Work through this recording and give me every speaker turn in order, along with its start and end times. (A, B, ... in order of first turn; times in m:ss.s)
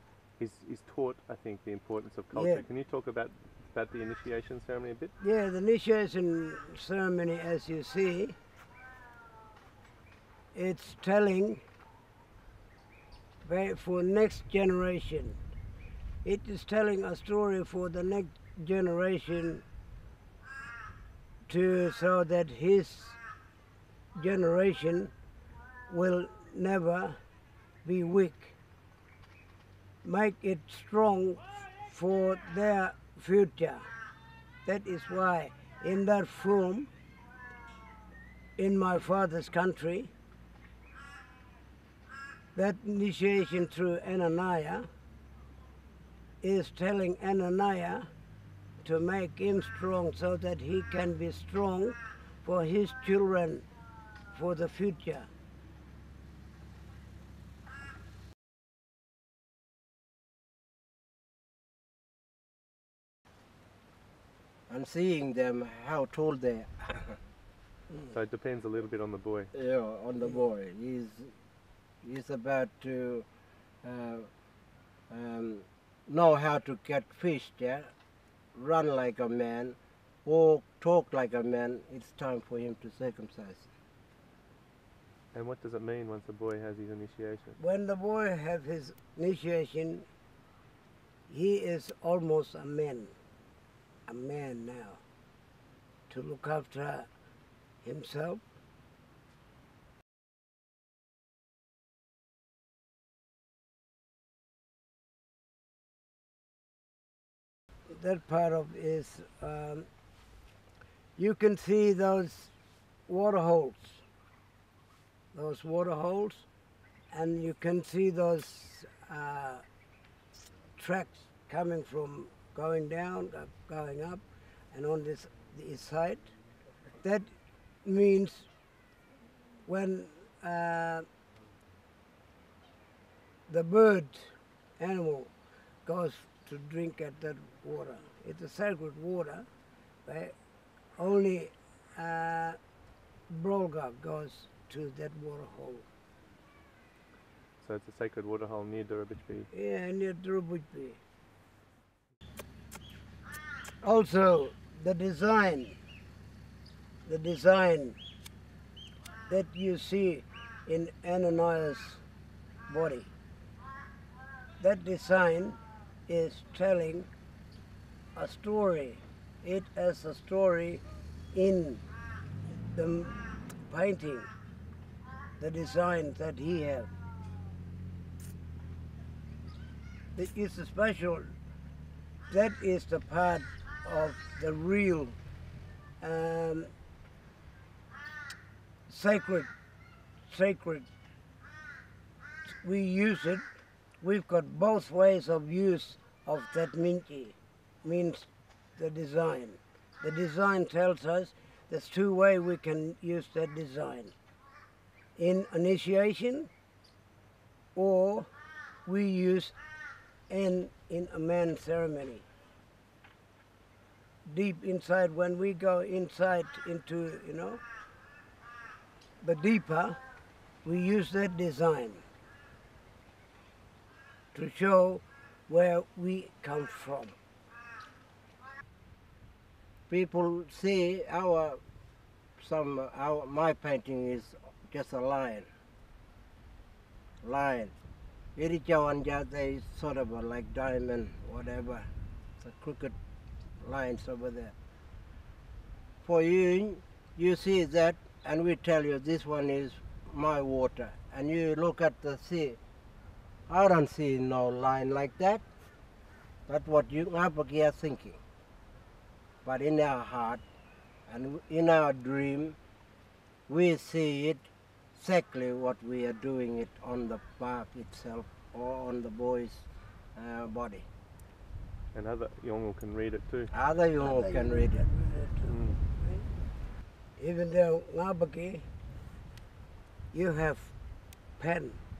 0:00.3-0:05.1 A
0:02.3-0:02.6 B
0:05.2-0:08.4 B
0:10.5-0:11.6 B
0:13.4-0:15.4 B
0:16.2-0:19.6 B
0:21.5-0:23.2 B
0:24.1-0:25.1 B
0:25.9-0:27.2 B
0:27.8-0:28.6 B
0:30.0-0:33.8 B
0:34.6-0:36.9 B
0:38.6-0:40.1 B
0:42.5-0:44.9 B
0:46.4-0:48.1 B
0:48.8-0:53.6 B
0:54.3-0:55.3 B
1:04.7-1:07.2 C
1:08.1-1:09.5 A
1:09.5-1:11.3 C
1:12.0-1:13.2 C
1:13.8-1:14.3 C
1:15.1-1:17.9 C
1:18.5-1:23.7 C
1:25.3-1:27.6 A
1:27.6-1:30.1 B
1:31.3-1:33.1 B
1:34.1-1:35.0 B
1:36.1-1:37.1 B
1:37.8-1:38.4 B
1:47.9-1:49.9 B
1:51.2-1:52.5 B
1:53.1-1:54.0 B
1:55.3-1:56.5 B
1:57.1-1:59.6 B
2:00.8-2:06.3 B
2:07.0-2:07.3 B
2:07.8-2:08.5 B
2:09.6-2:11.0 B
2:13.5-2:15.3 B
2:15.8-2:19.5 B
2:20.0-2:20.3 B
2:21.0-2:22.6 B
2:23.3-2:25.8 B
2:27.6-2:29.5 A
2:29.5-2:31.0 B
2:33.8-2:35.7 B
2:37.0-2:38.0 B
2:39.3-2:42.0 B
2:42.7-2:43.1 B
2:44.6-2:47.1 B
2:48.1-2:51.8 B
2:52.7-2:54.3 B
2:55.4-2:56.9 B
3:00.1-3:01.3 B
3:02.3-3:05.2 B
3:06.0-3:06.7 B
3:08.9-3:09.5 B
3:10.3-3:10.9 B
3:12.5-3:13.4 B
3:14.0-3:24.1 B
3:25.2-3:26.5 B
3:27.7-3:28.3 B
3:28.8-3:29.5 B
3:30.3-3:32.2 B
3:34.2-3:37.6 B
3:39.2-3:40.0 B
3:40.6-3:42.0 B
3:44.3-3:47.1 B
3:49.9-3:51.6 C
3:52.4-3:55.5 C
3:57.2-3:57.7 C
3:58.4-4:01.9 C
4:02.4-4:02.9 C
4:03.6-4:04.5 C
4:06.0-4:12.6 C
4:13.5-4:15.4 C
4:16.5-4:18.2 C
4:19.4-4:20.4 C
4:21.1-4:22.6 C
4:23.5-4:30.8 C
4:31.9-4:33.5 A
4:33.5-4:34.9 C
4:34.0-4:36.2 B
4:35.4-4:35.8 A
4:37.2-4:38.6 B
4:40.1-4:40.7 B
4:41.4-4:41.8 B